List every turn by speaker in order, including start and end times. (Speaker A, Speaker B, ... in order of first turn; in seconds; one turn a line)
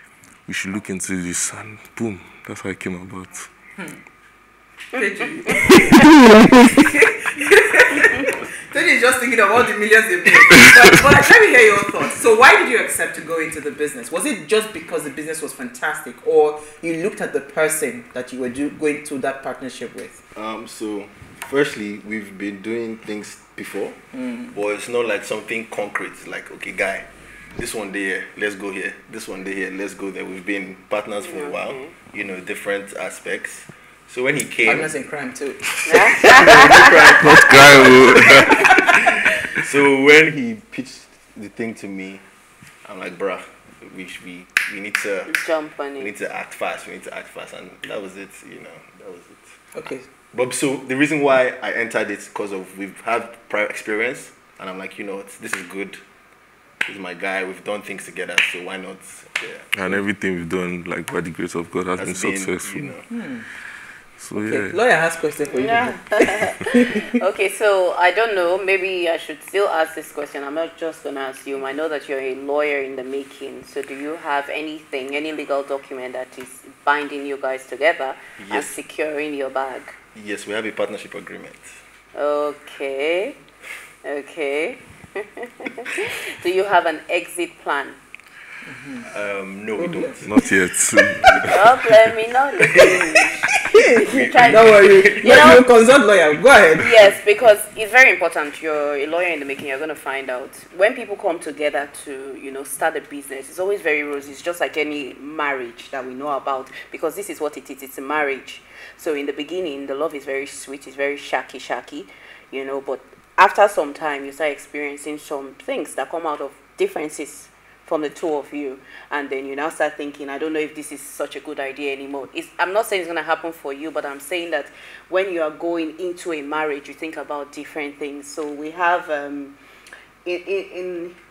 Speaker A: 0.5-3.5
Speaker B: 4.9-20.2
Speaker C: 20.4-24.0
Speaker B: 24.1-24.5
Speaker C: 24.5-34.9
Speaker D: 31.2-31.9
Speaker B: 34.6-35.6
Speaker D: 35.9-37.0
Speaker C: 36.1-42.2
Speaker B: 36.1-36.9
Speaker A: 37.1-39.2
Speaker C: 42.9-45.4
Speaker D: 45.3-46.1
Speaker C: 46.0-49.5
Speaker B: 49.7-50.1
Speaker C: 50.3-56.0
Speaker C: 56.9-59.7
Speaker A: 59.7-63.0
Speaker C: 62.0-63.1
Speaker B: 63.1-63.5
Speaker A: 64.2-64.8
Speaker B: 64.4-67.2
Speaker D: 65.5-80.0
Speaker C: 78.4-78.8
Speaker C: 80.1-81.7
Speaker D: 82.2-83.4
Speaker D: 84.0-88.0
Speaker B: 88.7-89.1
Speaker C: 89.1-91.7
Speaker B: 89.8-90.2
Speaker A: 90.2-92.0
Speaker D: 91.4-95.7
Speaker C: 92.7-93.0
Speaker B: 93.5-97.0
Speaker C: 93.9-95.5
Speaker D: 96.8-129.6
Speaker D: 130.2-131.2